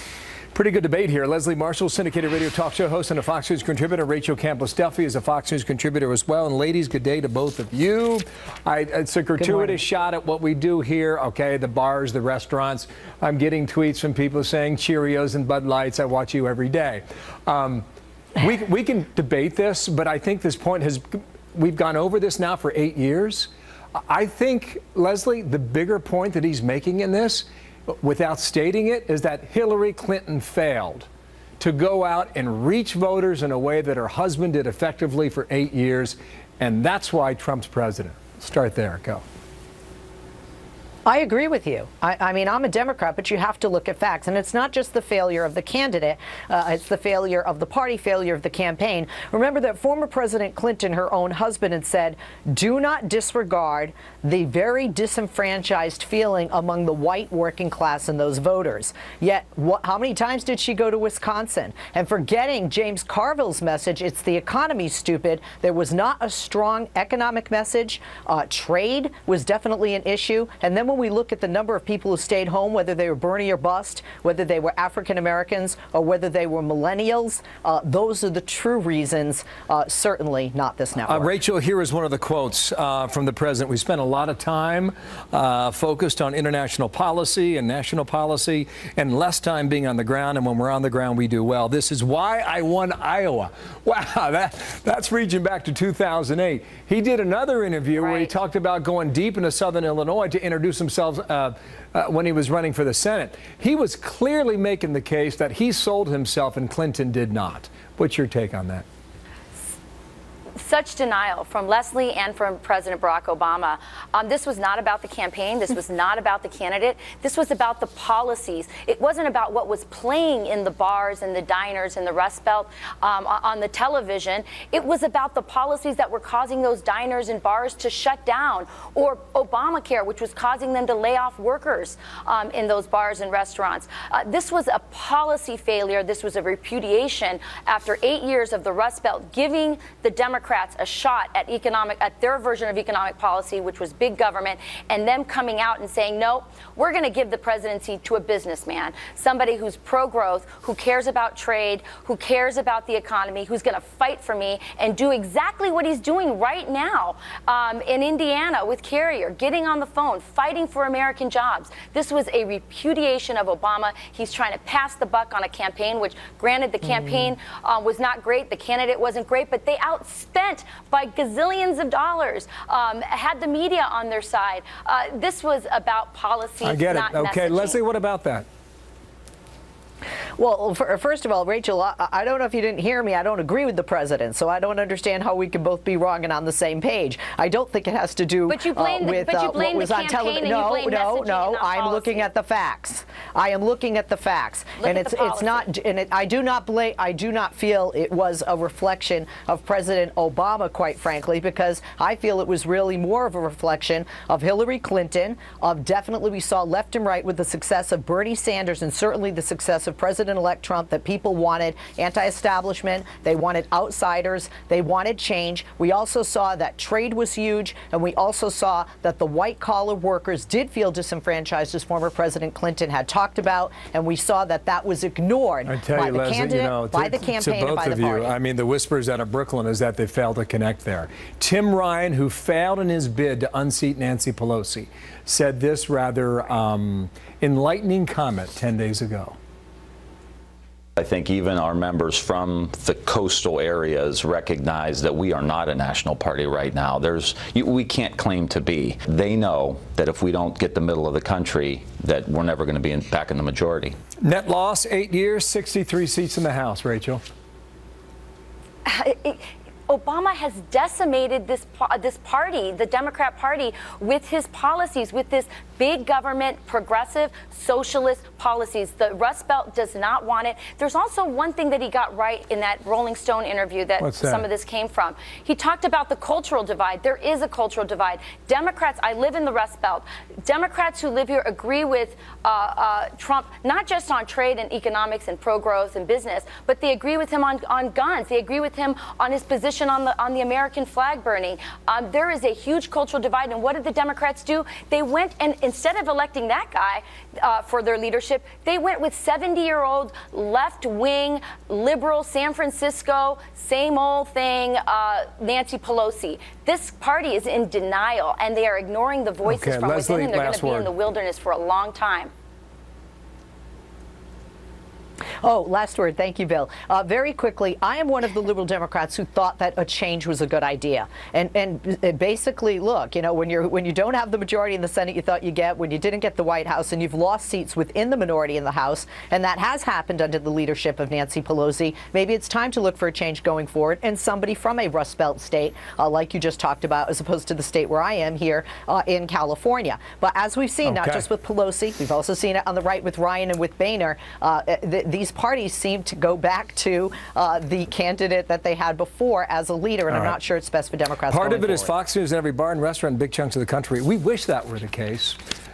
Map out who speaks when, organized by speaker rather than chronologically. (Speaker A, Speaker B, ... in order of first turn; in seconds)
Speaker A: 0.5-17.8, 18.4-31.1, 31.6-39.2, 81.1-108.8, 176.6-178.4, 225.7-239.3, 254.2-257.2, 274.0-274.4, 309.4-310.9, 340.8-341.2, 350.1-350.3, 351.3-355.4
Speaker B: 9.4-9.8, 41.0-81.3, 180.4-228.3, 315.4-351.9
Speaker C: 98.0-98.3, 110.6-177.8, 188.5-192.3, 194.8-195.7, 258.8-312.3
Speaker D: 241.0-254.0